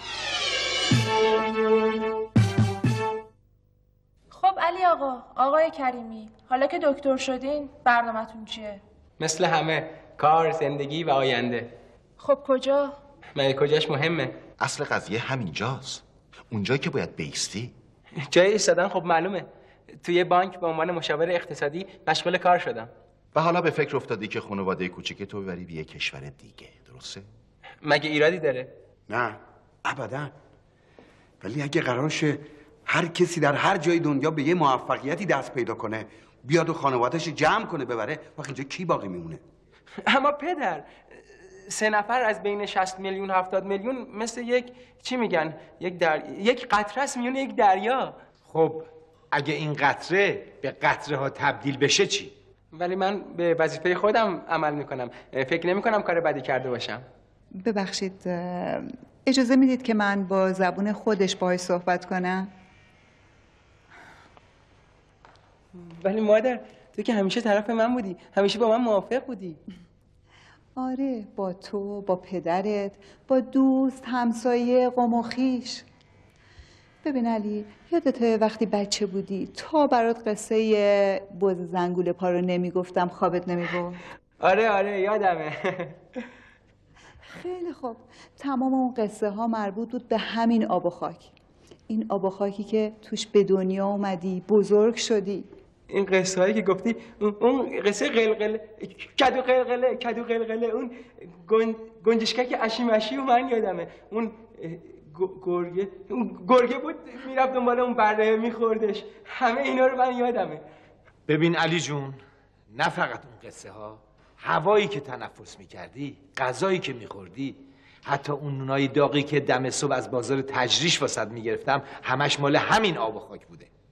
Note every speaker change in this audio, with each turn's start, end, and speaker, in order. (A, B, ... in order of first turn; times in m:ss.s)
0:04.3-0:08.8 A
0:09.2-0:11.7 B
0:12.2-0:12.9 A
0:13.3-0:14.3 B
0:14.6-0:17.7 C
0:18.2-0:19.4 B
0:20.0-0:22.9 B
0:23.3-0:27.2 C
0:27.8-0:28.7 B
0:29.1-0:30.3 D
0:31.4-0:39.4 D
0:40.0-0:40.9 B
0:41.6-0:48.2 B
0:48.5-0:52.3 E
0:52.7-0:57.0 B
0:57.6-1:02.5 F
1:05.9-1:09.6 B
1:10.8-1:15.8 F
1:17.0-1:24.0 F
1:24.4-1:26.0 B
1:27.3-1:31.3 F
1:31.9-1:35.5 F
1:35.9-1:50.6 B
1:51.3-1:52.2 E
1:52.7-2:03.7 E